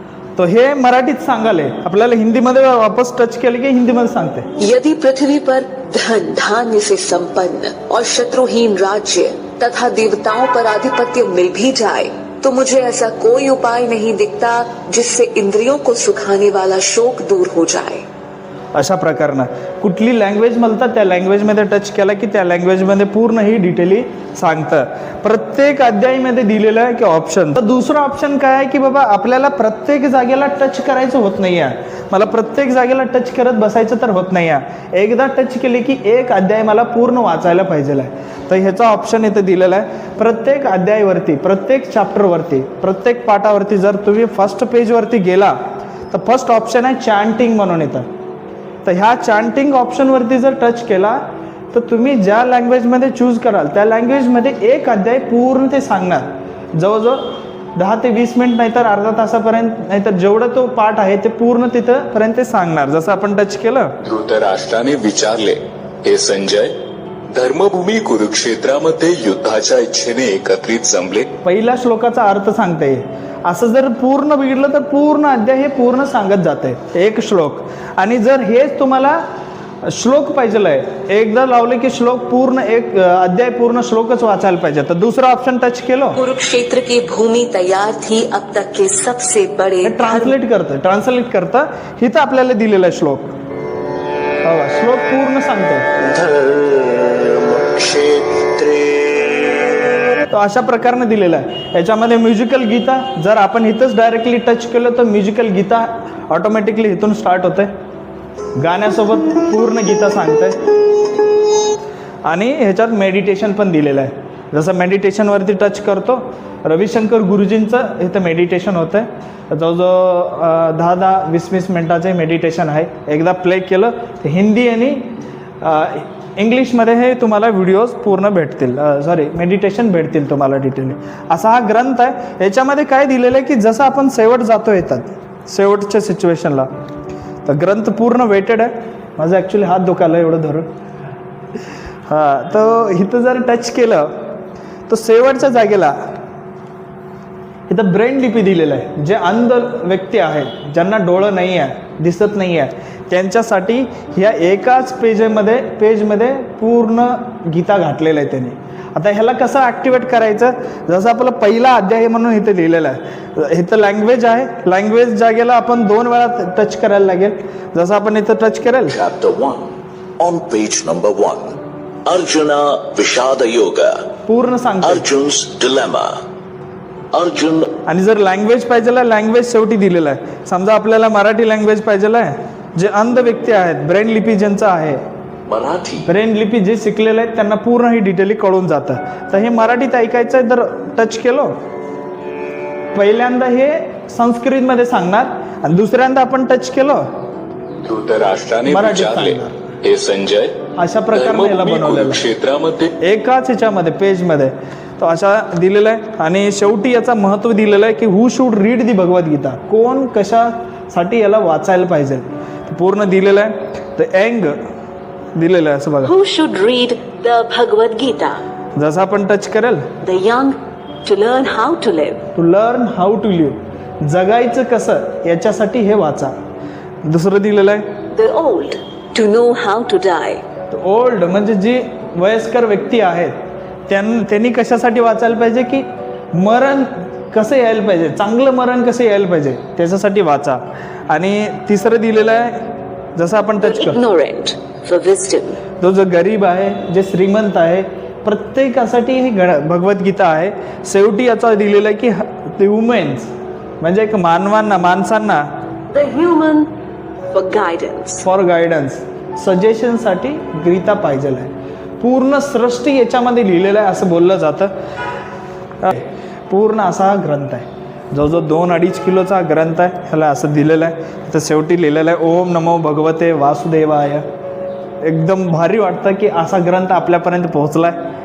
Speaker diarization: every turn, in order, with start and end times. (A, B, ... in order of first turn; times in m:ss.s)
0:00.4-0:04.5 A
0:04.6-0:18.0 B
0:18.8-0:45.6 A
0:46.1-0:48.1 A
0:48.8-0:51.2 A
0:51.7-1:03.9 A
1:04.0-1:06.7 C
1:07.3-1:11.3 C
1:11.4-1:19.2 A
1:19.9-1:26.2 A
1:26.2-1:30.4 B
1:29.8-1:33.3 A
1:34.4-1:35.8 A
1:36.1-1:39.5 D
1:40.3-1:47.7 A
1:48.6-1:50.6 A
1:52.3-2:05.1 A
2:05.6-2:16.7 A
2:17.4-2:20.7 A
2:22.1-2:24.2 A
2:24.9-2:26.0 A
2:27.7-2:49.0 A
2:48.9-2:51.5 E
2:52.0-2:53.9 E
2:54.3-2:55.1 A
2:54.8-2:56.1 E
2:57.1-2:57.7 E
2:57.9-3:05.0 A
3:05.5-3:06.1 E
3:06.1-3:11.5 A
3:12.9-3:17.0 A
3:17.8-3:20.5 C
3:18.7-3:19.5 A
3:20.8-3:22.2 A
3:21.1-3:22.9 C
3:23.0-3:34.6 A
3:35.4-3:36.1 A
3:36.0-3:38.4 B
3:38.8-3:39.9 A
3:40.0-3:40.5 B
3:41.0-3:42.2 B
3:42.4-3:46.3 A
3:47.0-3:47.8 A
3:48.1-3:50.4 B
3:50.7-3:53.4 A
3:53.9-4:04.0 A
4:03.6-4:05.6 B
4:05.8-4:13.3 A
4:13.8-4:15.5 A
4:15.9-4:16.7 B
4:17.3-4:18.2 B
4:18.2-4:24.7 A
4:25.8-4:34.2 A
4:35.0-4:38.0 A